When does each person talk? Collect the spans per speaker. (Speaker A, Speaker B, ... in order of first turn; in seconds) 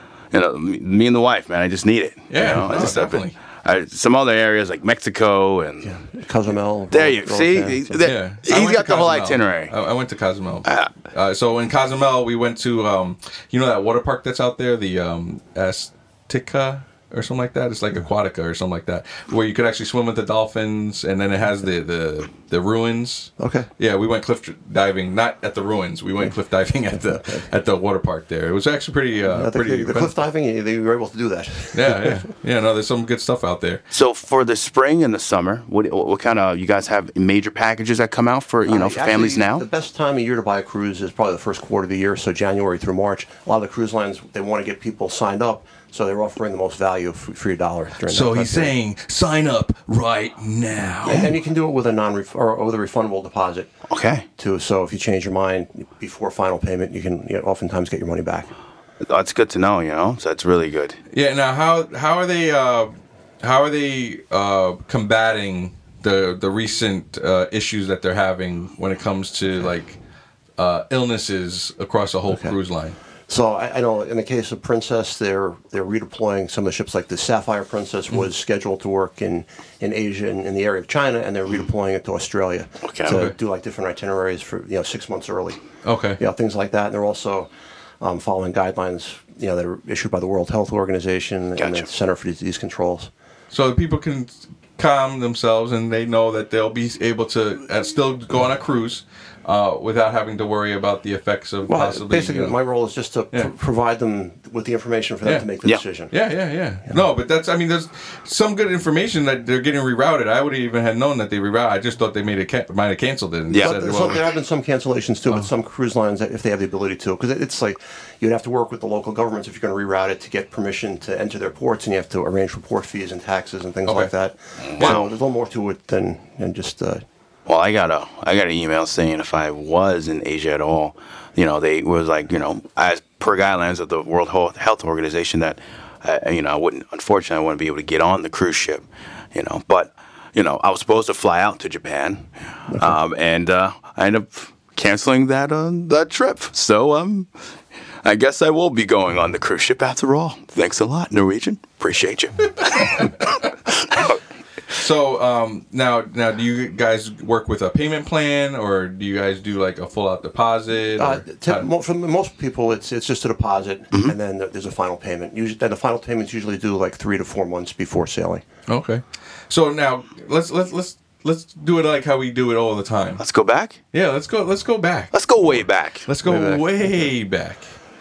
Speaker A: 0.3-6.0, 6.9-9.8, 10.6-10.9, 33.9-39.6, 53.9-54.2, 59.0-61.0, 82.8-83.3, 91.6-91.9, 113.5-114.0, 124.6-125.1, 127.5-147.3, 148.0-154.2, 173.2-173.8, 175.1-176.1
Speaker B: 2.3-3.4, 8.0-30.1, 31.7-33.8, 48.0-51.3, 61.1-62.9, 63.4-70.0, 70.6-73.0, 83.1-83.3, 85.8-86.2, 93.5-102.5, 106.1-114.2, 123.9-124.1, 124.8-125.0, 154.7-161.7, 168.7-173.2, 173.9-177.6
Speaker C: 5.8-8.1, 23.4-23.7, 27.1-27.4, 29.2-32.2, 38.6-48.8, 51.0-53.7, 54.4-58.5, 72.3-72.6, 73.3-85.7, 86.2-87.5, 88.0-93.1, 101.7-106.1, 113.6-127.0, 161.0-168.4, 176.2-177.0